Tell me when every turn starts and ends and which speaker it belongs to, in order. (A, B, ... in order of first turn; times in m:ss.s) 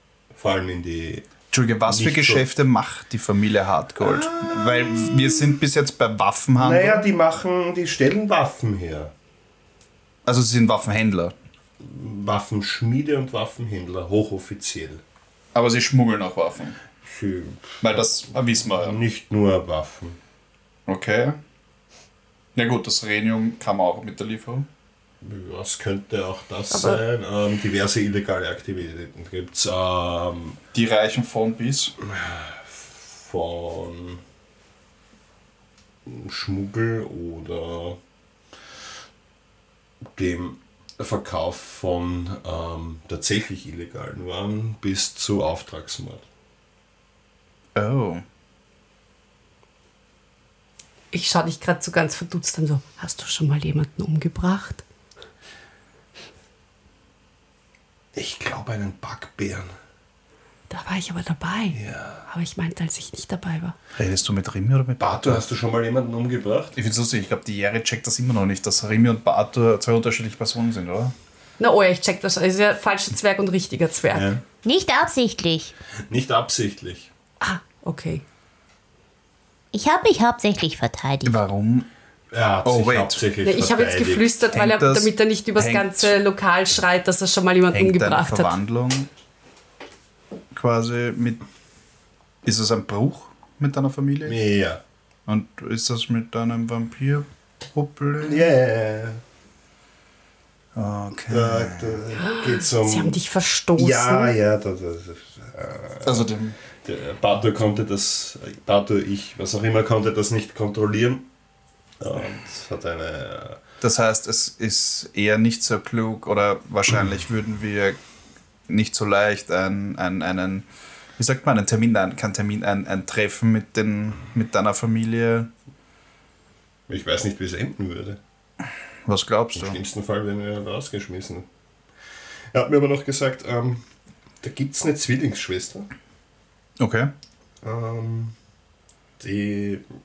0:00.3-0:01.3 A
0:01.5-0:07.0 B
0:01.9-0:02.4 A
0:04.0-0:05.5 A
0:06.6-0:09.1 A
0:10.2-0:11.3 B
0:11.8-0:15.0 A
0:15.5-0:16.8 B
0:17.0-0:18.1 A
0:17.8-0:19.0 B
0:18.6-0:20.2 A
0:20.9-0:21.4 B
0:22.5-0:24.7 B
0:25.2-0:30.6 A
0:26.7-0:27.0 C
0:30.7-0:31.9 B
0:32.0-0:34.2 A
0:36.0-0:38.0 A
0:40.1-0:46.2 A
0:47.7-0:48.2 B
0:51.1-0:54.8 C
0:58.1-0:59.7 A
1:00.7-1:03.7 C
1:01.7-1:02.2 A
1:04.0-1:05.4 B
1:05.0-1:06.7 A
1:06.7-1:11.1 B
1:11.6-1:14.2 C
1:14.1-1:14.4 A
1:14.6-1:15.7 D
1:16.1-1:17.1 A
1:17.4-1:18.2 C
1:19.7-1:21.4 D
1:21.2-1:21.9 B
1:22.3-1:24.3 A
1:22.6-1:23.2 B
1:23.4-1:28.6 C
1:24.5-1:26.1 B
1:27.7-1:29.1 B
1:30.5-1:31.4 B
1:32.4-1:34.4 B
1:34.2-1:34.8 A
1:35.3-1:38.4 B
1:38.2-1:39.2 A
1:40.7-1:42.0 B
1:41.3-1:43.2 A
1:42.2-1:44.3 C
1:43.8-1:46.3 A
1:46.0-1:46.6 B
1:46.8-1:51.3 A
1:52.0-1:53.6 A
1:53.8-1:58.0 B
1:58.7-2:00.7 B
2:01.2-2:05.5 B
2:06.9-2:08.2 A
2:09.0-2:09.8 B
2:09.5-2:11.5 A
2:12.5-2:13.8 A
2:14.4-2:15.9 A
2:16.8-2:17.1 B
2:17.6-2:18.3 A
2:19.2-2:19.8 A